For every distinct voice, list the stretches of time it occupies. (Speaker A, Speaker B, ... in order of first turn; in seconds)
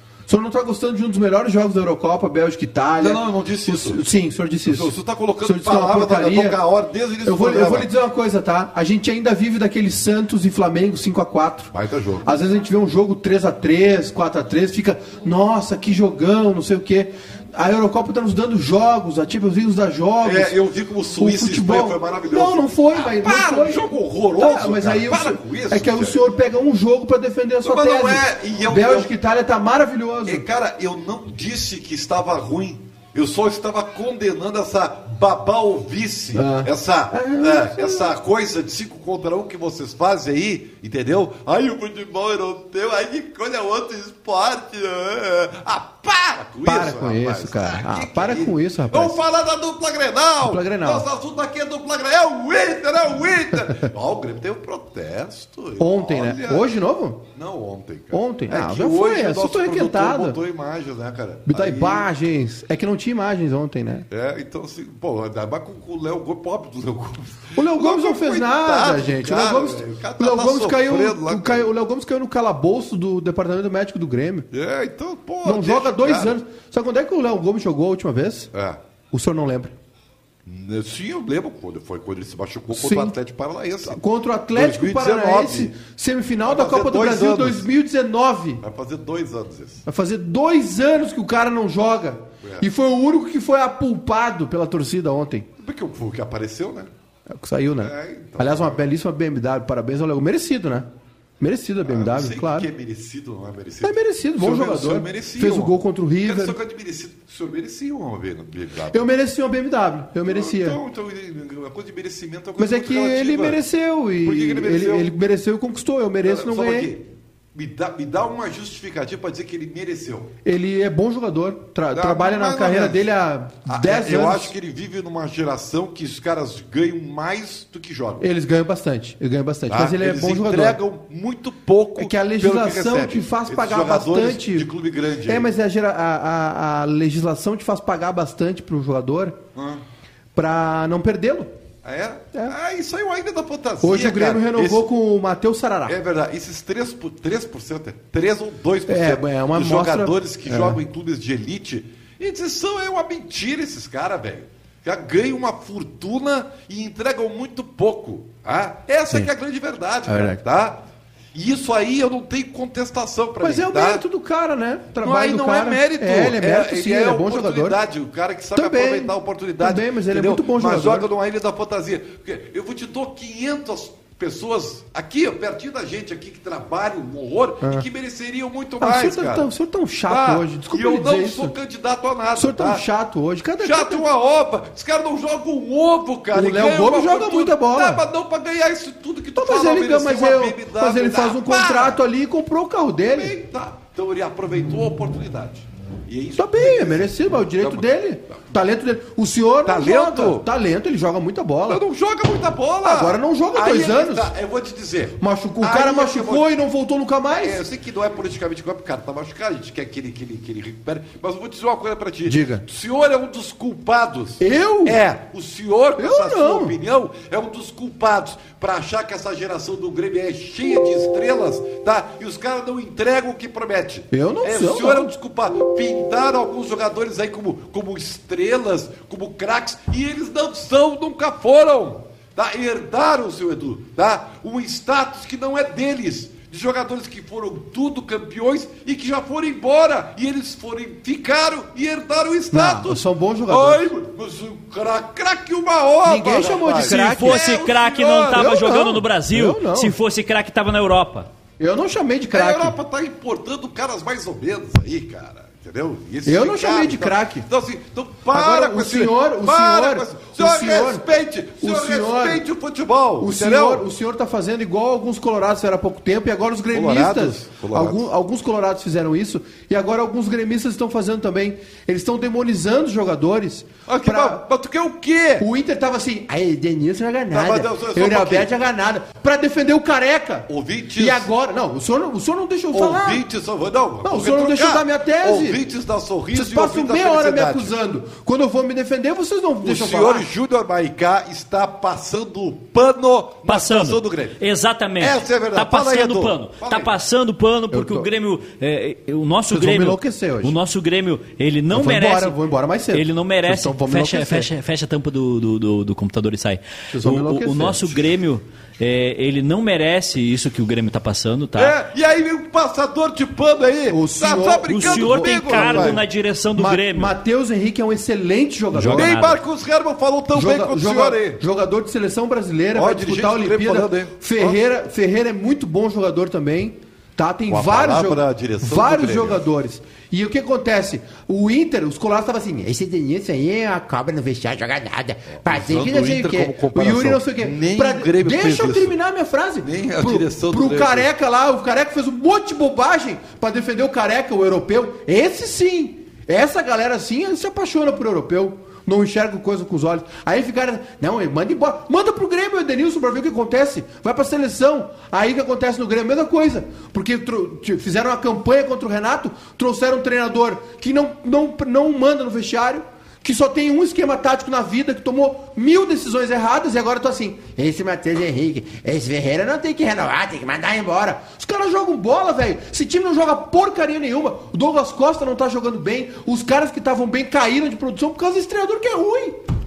Speaker A: 0.3-6.6, 7.2-11.7, 12.2-20.6, 21.1-30.4, 36.3-38.1, 46.6-49.2, 50.4-51.0, 55.8-57.2, 58.1-60.4, 61.5-64.1, 67.5-74.5, 75.4-78.5, 79.1-79.7, 82.7-83.1, 83.8-88.6, 89.8-95.5, 97.3-100.9, 101.4-102.7, 103.8-106.6, 108.9-110.8, 112.6-116.9, 120.4-124.5, 128.2-130.8, 132.0-134.7, 135.2-139.4, 140.3-141.5, 143.8-145.9, 148.9-150.8, 160.1-160.4, 163.4-167.8, 168.5-171.1, 178.8-181.5, 182.3-184.1, 186.3-188.0, 189.3-193.3, 196.4-201.8, 202.8-204.3, 205.2-207.7, 212.2-212.6, 214.4-215.0, 216.0-216.7, 224.1-225.1, 242.5-243.9, 246.0-247.4, 248.3-249.9, 251.6-252.8, 256.2-257.5, 258.3-261.1, 261.6-262.4, 263.2-274.4, 275.4-283.2, 284.0-285.6, 286.3-290.3, 297.7-298.1, 299.5-300.5, 301.7-304.5, 306.9-308.0, 313.9-319.1, 320.3-379.4
Speaker B: 3.0-4.0, 4.7-7.9, 11.7-12.2, 20.2-26.2, 27.6-29.1, 30.2-56.7, 57.3-62.1, 64.1-71.7, 74.5-76.4, 78.5-78.8, 80.5-84.0, 84.5-85.7, 86.4-87.7, 88.6-89.8, 95.6-96.9, 97.8-98.8, 101.8-109.1, 110.2-113.6, 114.2-115.1, 116.2-120.3, 121.9-123.0, 123.7-128.2, 129.7-135.5, 139.5-139.8, 141.8-144.9, 145.8-164.0, 165.0-179.5, 180.1-182.8, 183.6-192.0, 193.1-197.9, 199.6-200.5, 201.7-206.5, 207.4-248.5, 252.3-263.9, 266.7-268.1, 273.9-275.5, 277.3-278.5, 280.5-281.3, 282.7-287.7, 289.6-294.4, 295.0-296.9, 311.6-316.0, 318.9-321.4, 322.7-324.6, 327.5-329.4, 335.3-338.9, 339.6-341.1
Speaker C: 246.7-251.3, 293.4-302.4, 302.9-311.7, 314.7-317.1, 318.7-319.4